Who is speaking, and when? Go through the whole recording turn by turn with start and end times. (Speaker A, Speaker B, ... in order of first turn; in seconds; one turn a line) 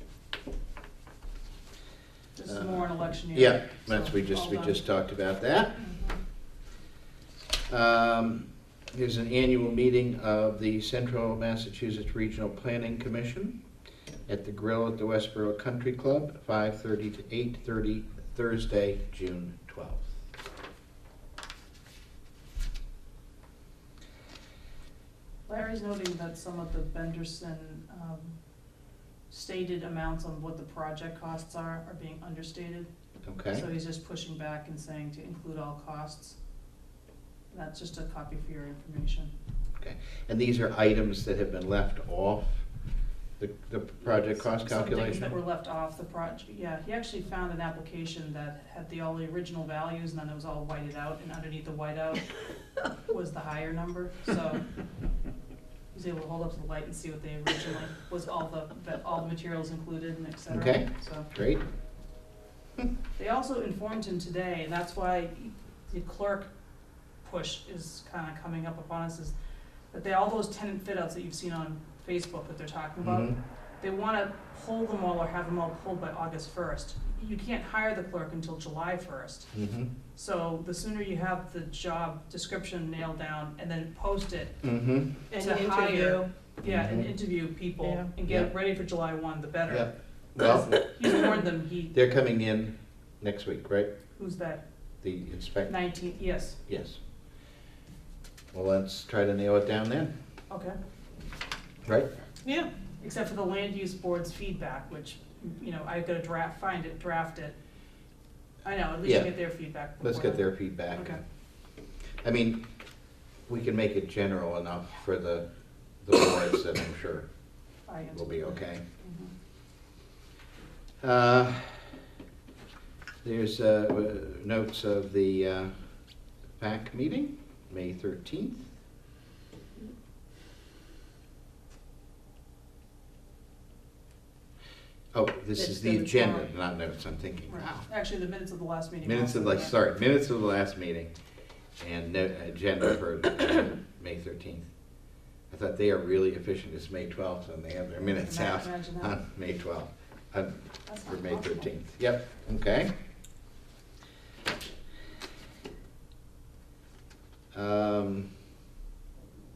Speaker A: 2.4-4.8
Speaker B: 2.5-5.8
Speaker A: 5.8-6.2
Speaker B: 7.7-13.6
Speaker B: 14.3-20.2
Speaker A: 25.5-28.4
Speaker A: 29.3-32.9
Speaker B: 33.2-33.6
Speaker A: 33.5-36.4
Speaker A: 37.5-39.3
Speaker B: 39.8-42.7
Speaker B: 43.4-45.3
Speaker A: 44.3-54.6
Speaker A: 55.9-61.3
Speaker B: 60.5-61.6
Speaker A: 63.2-66.5
Speaker A: 67.2-69.3
Speaker A: 69.9-79.5
Speaker B: 73.0-73.4
Speaker B: 79.5-79.9
Speaker A: 80.2-84.6
Speaker B: 84.6-85.1
Speaker C: 85.3-86.2
Speaker A: 85.3-92.0
Speaker B: 86.6-87.1
Speaker C: 87.8-88.1
Speaker B: 88.3-88.5
Speaker B: 89.7-90.9
Speaker B: 91.9-93.9
Speaker A: 94.2-94.6
Speaker B: 95.0-95.8
Speaker A: 95.7-96.6
Speaker B: 96.7-97.0
Speaker B: 98.5-100.1
Speaker A: 100.5-100.8
Speaker B: 101.8-102.1
Speaker C: 102.4-102.7
Speaker A: 103.0-107.5
Speaker A: 108.6-111.2
Speaker B: 109.0-109.3
Speaker B: 110.0-111.2
Speaker B: 112.2-112.6
Speaker B: 113.5-115.5
Speaker B: 116.0-117.3
Speaker A: 117.9-119.3
Speaker B: 118.1-118.8
Speaker B: 121.0-121.9
Speaker B: 123.2-125.7
Speaker B: 126.5-128.7
Speaker B: 135.1-137.9
Speaker C: 135.6-136.5
Speaker A: 137.5-139.8
Speaker B: 139.0-141.1
Speaker B: 141.8-144.7
Speaker B: 145.5-152.9
Speaker A: 148.0-149.2
Speaker A: 150.9-151.7
Speaker B: 157.5-158.3